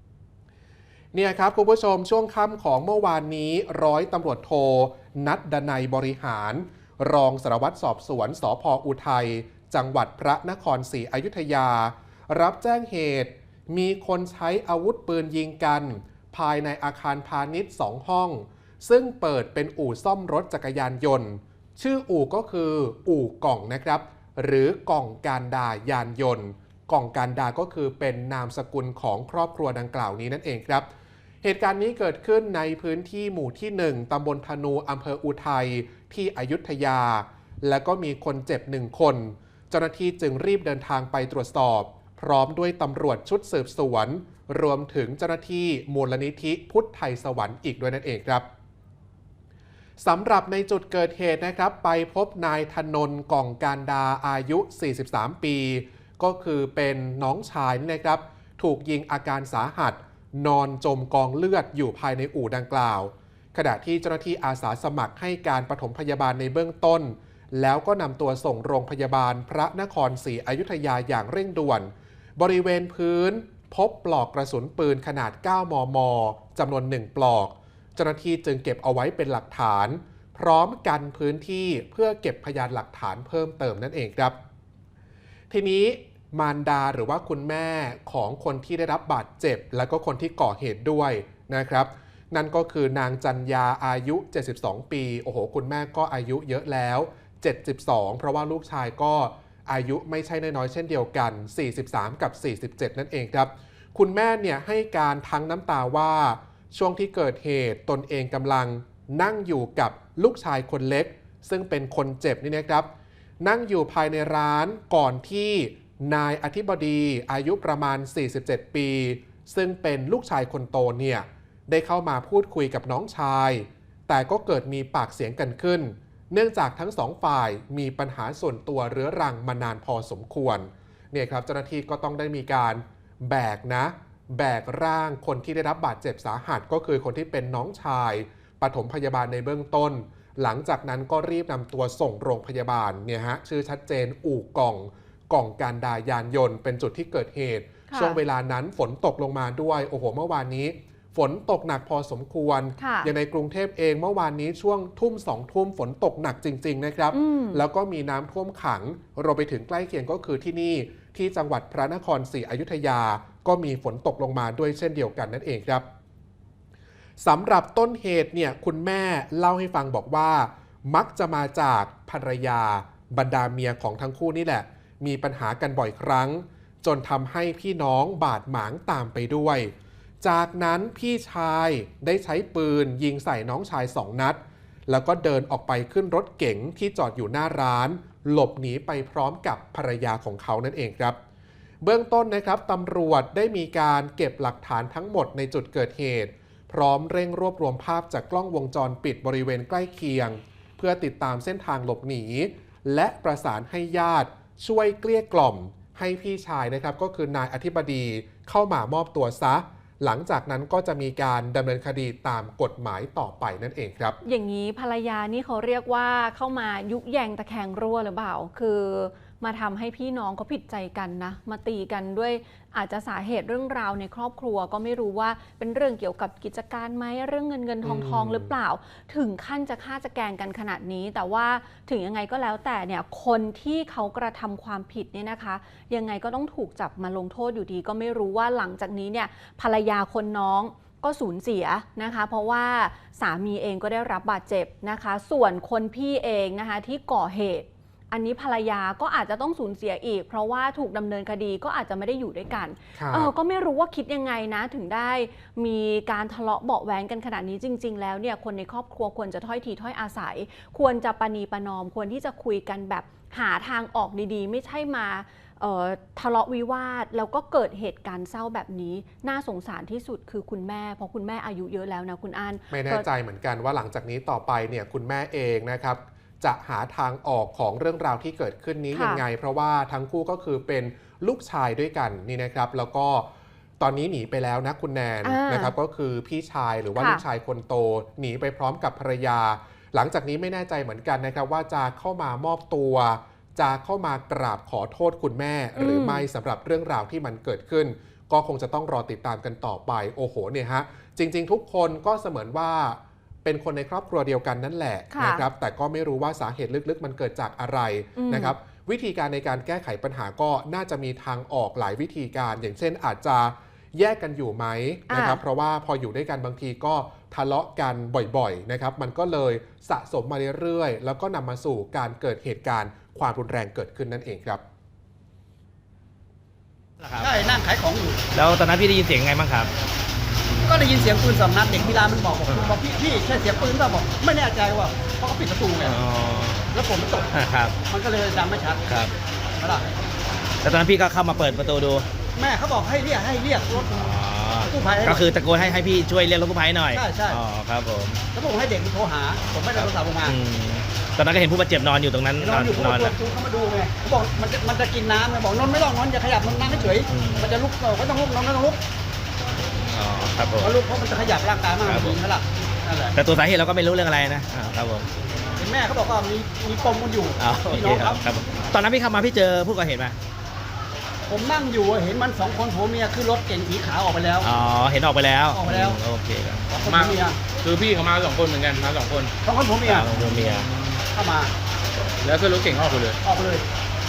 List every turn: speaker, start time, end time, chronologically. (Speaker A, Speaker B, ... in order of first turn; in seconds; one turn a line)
Speaker A: 1.1-30.9
Speaker A: 31.4-48.5
Speaker A: 50.0-84.3
Speaker A: 85.5-112.9
Speaker A: 113.4-165.8
Speaker B: 147.9-148.2
Speaker B: 152.8-153.1
Speaker B: 157.1-157.6
Speaker A: 167.2-191.2
Speaker A: 191.8-214.2
Speaker B: 214.2-273.1
Speaker A: 227.8-228.5
Speaker A: 253.0-253.3
Speaker A: 272.7-283.3
Speaker B: 278.9-279.2
Speaker A: 283.8-324.6
Speaker B: 285.2-285.7
Speaker B: 286.9-287.2
Speaker B: 295.8-296.3
Speaker B: 305.1-305.4
Speaker B: 308.1-308.5
Speaker B: 315.1-315.4
Speaker C: 327.0-327.3
Speaker D: 327.2-328.2
Speaker C: 328.3-329.7
Speaker D: 330.6-336.0
Speaker C: 335.8-336.7
Speaker D: 336.7-337.3
Speaker C: 337.3-337.7
Speaker D: 337.9-338.8
Speaker C: 338.9-339.1
Speaker D: 339.6-339.9
Speaker C: 340.6-342.1
Speaker D: 342.4-344.0
Speaker C: 343.9-348.2
Speaker D: 344.7-345.3
Speaker D: 346.9-347.4
Speaker D: 348.3-350.4
Speaker C: 349.5-353.1
Speaker D: 352.4-358.8
Speaker C: 356.6-357.5
Speaker C: 359.9-360.7
Speaker D: 360.6-363.1
Speaker C: 361.8-362.2
Speaker C: 363.1-365.1
Speaker D: 365.6-368.2
Speaker C: 367.4-370.2
Speaker D: 371.3-374.5
Speaker C: 374.4-376.7
Speaker D: 375.5-376.0
Speaker D: 376.7-377.4
Speaker E: 376.8-379.3
Speaker D: 379.4-380.1
Speaker C: 379.8-380.7
Speaker E: 380.1-381.0
Speaker D: 381.1-381.5
Speaker E: 382.2-383.2
Speaker D: 383.2-383.6